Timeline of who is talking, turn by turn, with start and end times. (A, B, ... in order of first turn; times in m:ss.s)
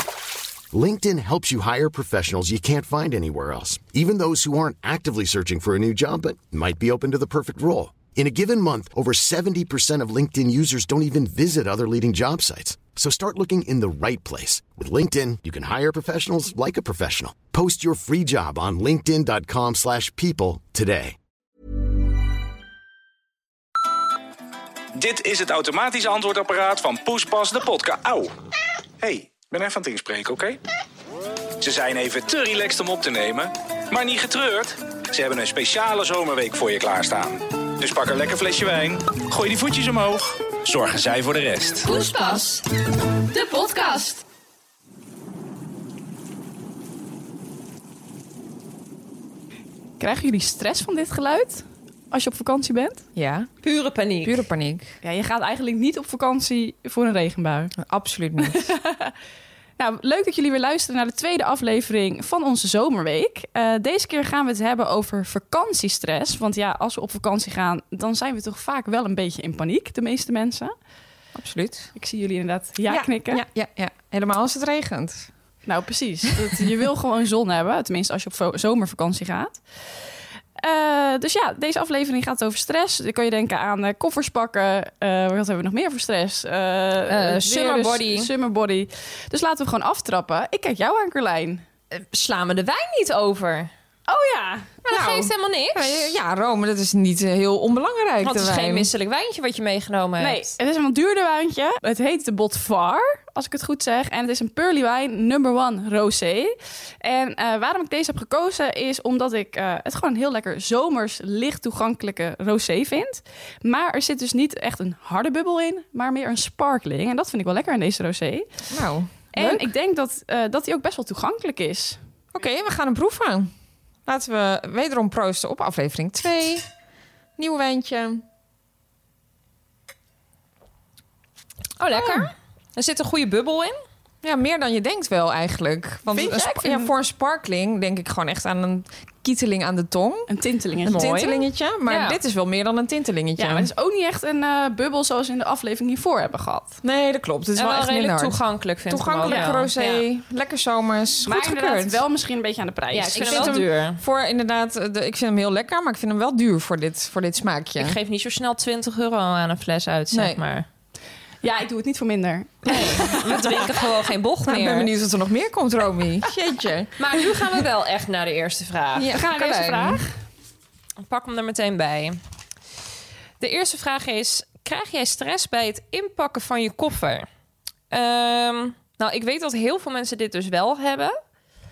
0:00.7-0:21.2 A
0:25.0-0:28.3 B
0:29.0-0:30.6 B
0:31.6-0:41.9 B
0:41.8-0:42.6 C
0:43.2-0:44.2 C
0:50.0-0:53.0 D
0:53.2-0:53.5 E
0:53.6-0:54.4 C
0:54.2-0:55.0 E
0:55.0-0:57.8 D
0:57.8-0:58.7 E
0:58.4-0:59.1 D
0:59.8-1:10.7 D
1:11.3-1:11.9 E
1:12.0-1:13.4 D
1:12.9-1:15.3 E
1:15.6-1:19.6 D
1:20.6-1:31.6 D
1:27.1-1:28.3 C
1:31.9-1:33.7 C
1:34.1-1:34.8 D
1:34.8-1:36.1 C
1:34.9-1:38.9 E
1:38.2-1:40.5 C
1:40.2-1:58.6 D
1:58.7-1:59.6 E
1:59.3-2:02.0 D
2:02.3-2:03.5 E
2:04.0-2:06.6 E
2:07.4-2:08.2 E
2:11.8-2:13.8 C
2:11.9-2:12.3 E
2:14.2-2:20.3 E
2:16.1-2:16.9 D
2:20.3-2:21.0 D
2:20.8-2:22.2 C
2:20.9-2:23.7 E
2:23.4-2:26.8 D
2:26.8-2:32.0 E
2:27.6-2:30.0 C
2:29.2-2:29.6 D
2:31.2-2:33.6 D
2:32.9-2:34.0 C
2:33.1-2:38.0 E
2:37.8-2:40.7 C
2:40.1-2:40.4 E
2:41.4-2:43.7 D
2:42.7-2:44.9 C
2:44.4-2:46.9 E
2:47.0-2:49.2 C
2:49.0-2:50.0 E
2:49.2-2:50.0 D
2:51.0-2:52.2 C
2:53.4-2:57.3 C
2:57.9-3:01.1 C